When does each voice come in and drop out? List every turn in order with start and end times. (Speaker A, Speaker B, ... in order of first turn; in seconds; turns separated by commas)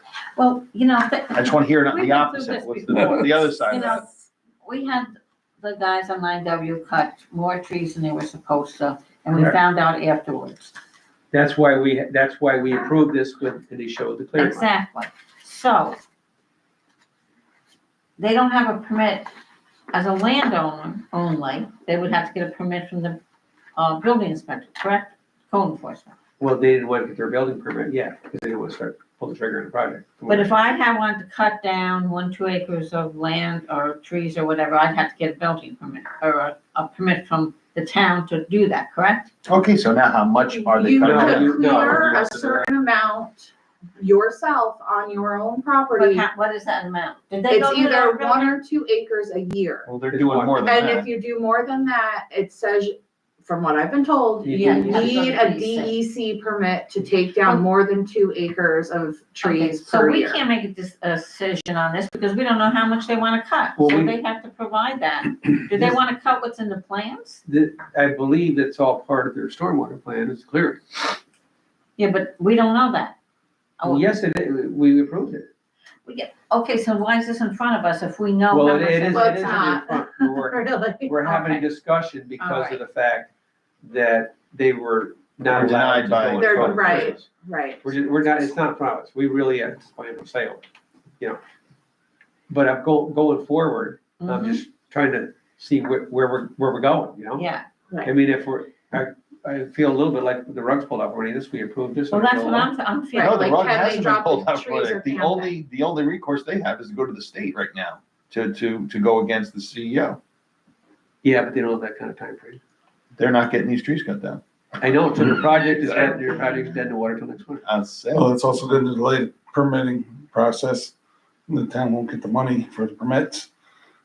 Speaker A: 0.3-10.7, Speaker B: 1.3-4.0, Speaker C: 11.3-14.7, Speaker A: 14.3-16.0, Speaker A: 18.2-19.3, Speaker A: 19.9-23.2, Speaker A: 23.8-26.1, Speaker C: 26.4-30.6, Speaker A: 30.3-39.3, Speaker B: 39.5-42.1, Speaker D: 40.4-46.2, Speaker C: 41.0-42.7, Speaker A: 45.9-48.6, Speaker D: 47.5-49.9, Speaker B: 49.9-51.1, Speaker C: 50.1-50.6, Speaker D: 50.6-60.4, Speaker C: 54.4-55.1, Speaker A: 54.5-56.0, Speaker A: 59.4-67.4, Speaker C: 63.8-64.1, Speaker C: 67.5-71.0, Speaker A: 72.0-73.1, Speaker A: 73.8-74.1, Speaker C: 73.8-75.5, Speaker A: 76.0-79.6, Speaker C: 78.5-83.3, Speaker D: 79.1-81.5, Speaker A: 82.4-82.8, Speaker C: 83.8-87.3, Speaker B: 85.5-87.1, Speaker D: 86.4-88.5, Speaker C: 87.8-90.6, Speaker C: 92.5-97.5, Speaker A: 94.2-94.6, Speaker A: 97.4-97.6, Speaker C: 98.0-102.7, Speaker A: 102.1-103.8, Speaker D: 103.1-105.5, Speaker B: 103.1-110.2, Speaker C: 111.2-112.6, Speaker B: 113.2-114.4, Speaker C: 114.8-117.6, Speaker B: 117.6-118.3, Speaker E: 118.1-120.9, Speaker E: 121.5-123.5